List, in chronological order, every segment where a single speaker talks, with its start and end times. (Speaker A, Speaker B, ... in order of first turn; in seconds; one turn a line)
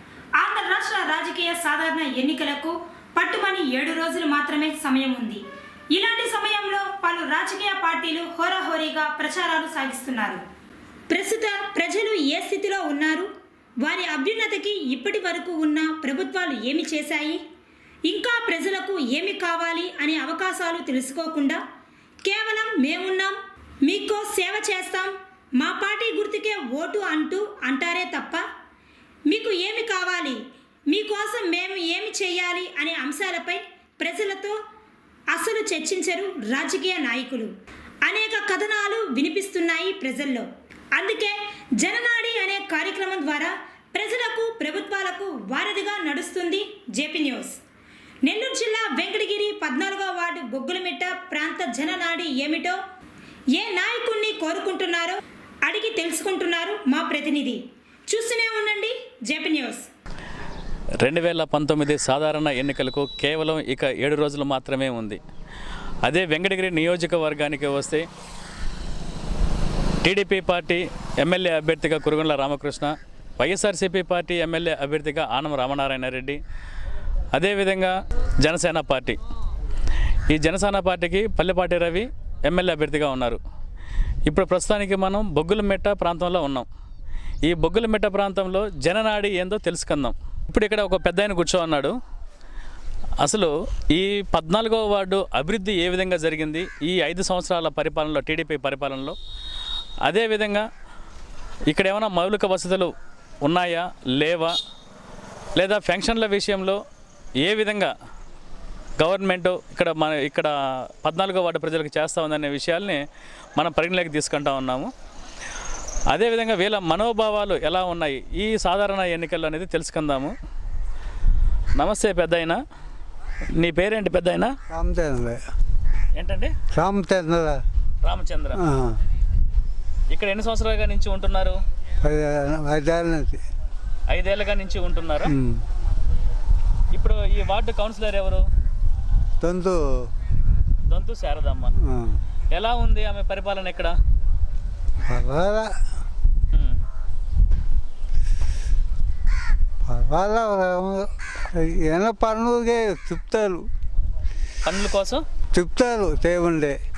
Speaker A: 0.4-10.4
Speaker A: 11.1-13.3
Speaker A: 13.8-17.4
Speaker A: 18.0-21.6
Speaker A: 22.2-28.4
Speaker A: 29.3-34.5
Speaker A: 35.3-47.6
Speaker A: 48.2-52.8
Speaker A: 53.5-59.9
Speaker B: 61.0-65.2
Speaker B: 66.0-68.0
Speaker B: 70.0-76.4
Speaker B: 77.3-79.2
Speaker B: 80.3-83.4
Speaker B: 84.3-86.7
Speaker B: 87.4-91.9
Speaker B: 93.2-99.1
Speaker B: 100.1-100.7
Speaker B: 101.7-102.9
Speaker B: 103.4-104.5
Speaker B: 105.6-106.8
Speaker B: 107.4-107.9
Speaker B: 109.0-110.5
Speaker B: 111.0-113.0
Speaker B: 113.6-114.9
Speaker B: 116.1-120.3
Speaker B: 121.8-122.6
Speaker B: 123.6-124.5
Speaker C: 124.7-125.4
Speaker B: 126.2-126.5
Speaker C: 126.8-127.6
Speaker B: 128.0-128.6
Speaker C: 128.6-129.0
Speaker B: 130.1-131.6
Speaker C: 132.0-133.4
Speaker B: 134.1-135.3
Speaker C: 135.3-135.6
Speaker B: 136.9-138.4
Speaker C: 139.4-139.8
Speaker B: 140.9-141.7
Speaker C: 141.9-142.2
Speaker B: 142.5-143.9
Speaker C: 145.1-145.7
Speaker C: 149.9-153.6
Speaker B: 154.6-155.2
Speaker C: 155.5-156.8